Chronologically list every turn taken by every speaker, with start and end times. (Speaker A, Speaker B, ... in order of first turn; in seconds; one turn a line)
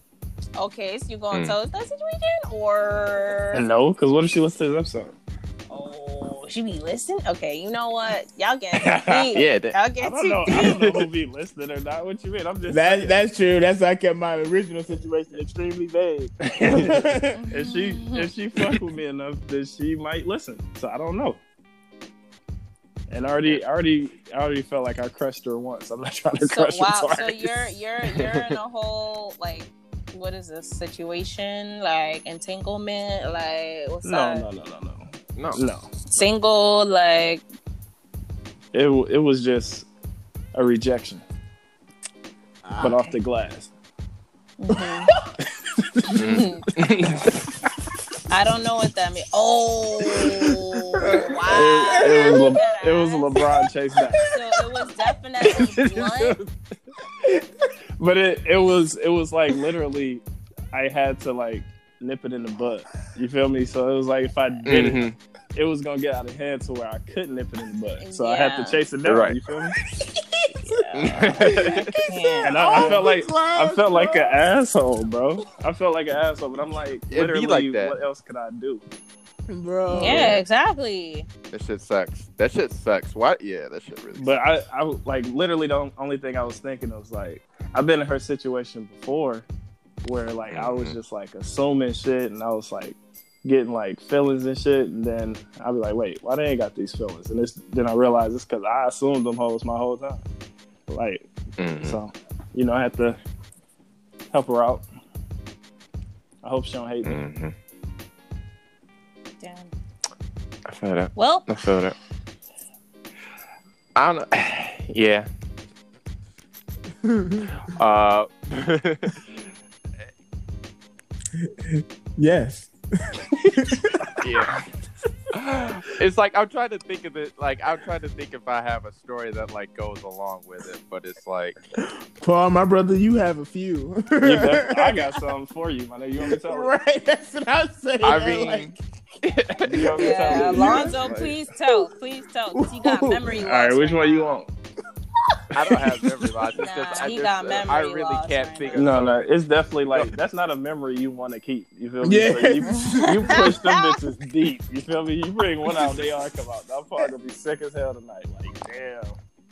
Speaker A: 0.6-3.6
Speaker B: 1.3-1.6
Speaker C: 3.5-5.1
Speaker A: 5.7-10.8
Speaker C: 8.8-9.4
Speaker B: 9.3-9.8
Speaker C: 10.0-13.2
Speaker B: 10.5-11.1
Speaker D: 12.7-17.4
Speaker C: 16.5-21.4
Speaker A: 17.3-18.3
Speaker C: 23.1-27.6
Speaker A: 26.4-34.5
Speaker C: 34.0-35.9
Speaker B: 35.4-35.6
Speaker A: 36.1-37.4
Speaker C: 38.7-39.9
Speaker C: 40.5-41.2
Speaker D: 42.6-43.0
Speaker C: 42.8-43.7
Speaker A: 44.6-45.1
Speaker C: 45.6-46.2
Speaker B: 46.1-47.5
Speaker A: 46.2-46.6
Speaker A: 48.3-53.3
Speaker D: 51.0-52.6
Speaker C: 51.5-54.3
Speaker A: 54.2-56.4
Speaker C: 55.5-56.3
Speaker C: 58.0-69.8
Speaker B: 64.7-65.2
Speaker A: 68.0-68.8
Speaker B: 69.0-69.4
Speaker D: 70.0-70.8
Speaker A: 70.5-73.0
Speaker B: 71.0-72.0
Speaker D: 71.4-74.5
Speaker C: 72.4-78.8
Speaker B: 77.1-78.0
Speaker D: 79.5-80.4
Speaker A: 79.9-81.3
Speaker B: 80.0-80.4
Speaker B: 81.5-84.3
Speaker C: 84.2-89.5
Speaker C: 90.0-100.2
Speaker B: 90.5-91.0
Speaker C: 100.9-101.3
Speaker B: 101.6-102.0
Speaker C: 101.8-103.2
Speaker C: 104.3-104.8
Speaker C: 106.4-107.2
Speaker B: 107.0-107.5
Speaker A: 109.4-109.7
Speaker B: 110.7-111.9
Speaker A: 111.1-111.5
Speaker B: 114.0-115.3
Speaker D: 117.0-117.5
Speaker B: 117.6-119.2
Speaker D: 121.4-124.2
Speaker B: 124.2-124.6
Speaker B: 125.3-131.6
Speaker D: 131.8-135.1
Speaker C: 134.2-136.7
Speaker D: 136.2-138.7
Speaker B: 138.0-140.4
Speaker C: 139.6-141.4
Speaker A: 140.0-144.4
Speaker D: 140.4-141.1
Speaker D: 142.5-143.3
Speaker C: 143.4-144.5
Speaker B: 145.5-149.3
Speaker D: 145.6-146.1
Speaker A: 146.6-148.9
Speaker C: 148.7-159.2
Speaker D: 152.0-153.5
Speaker A: 153.3-153.8